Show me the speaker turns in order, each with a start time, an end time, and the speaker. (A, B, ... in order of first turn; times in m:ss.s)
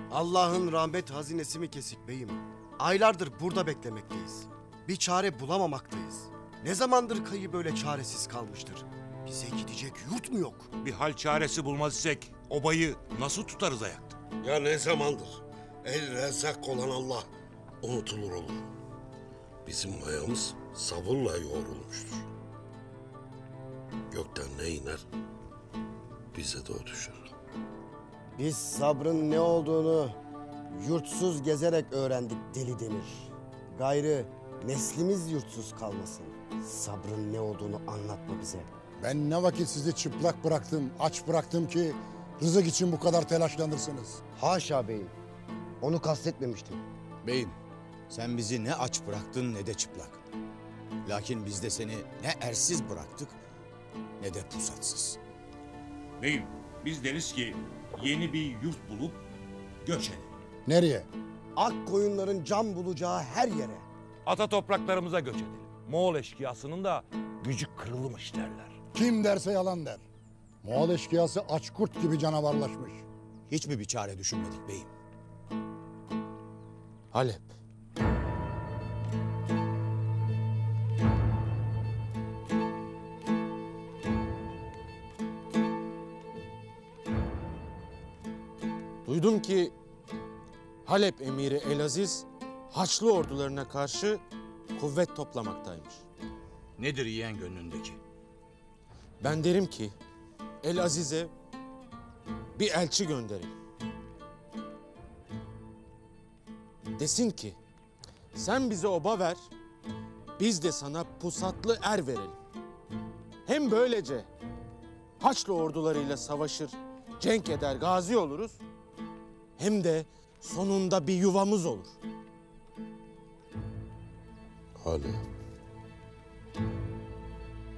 0:00.1-0:10.7 A
0:10.8-0:14.2 B
0:14.4-0:17.3 C
0:17.8-0:18.6 C
0:19.6-0:22.3 C
0:24.1-0:25.0 C
0:26.3-0:27.3 C
0:28.4-0:30.2 A
0:30.7-0:38.7 A
0:39.0-0:44.2 D
0:44.4-0:45.1 A
0:45.8-0:46.8 A
0:47.2-0:47.6 E
0:48.1-0:50.2 E
0:51.0-0:53.4 E
0:54.2-0:55.2 E
0:56.2-0:59.2 B
0:59.8-1:00.4 B
1:00.6-1:01.1 D
1:01.6-1:03.9 A
1:04.3-1:08.8 B
1:08.9-1:10.0 D
1:10.6-1:13.1 D
1:13.5-1:14.9 E
1:17.1-1:17.5 F
1:29.1-1:29.7 F
1:30.9-1:34.2 F
1:34.8-1:36.0 F
1:36.8-1:38.0 E
1:39.2-1:40.0 F
1:40.6-1:41.3 F
1:42.6-1:43.5 F
1:47.0-1:47.6 F
1:48.3-1:49.5 F
1:50.4-1:52.4 F
1:53.5-1:54.3 F
1:55.2-1:58.6 F
1:59.6-2:01.9 F
2:04.8-2:05.2 C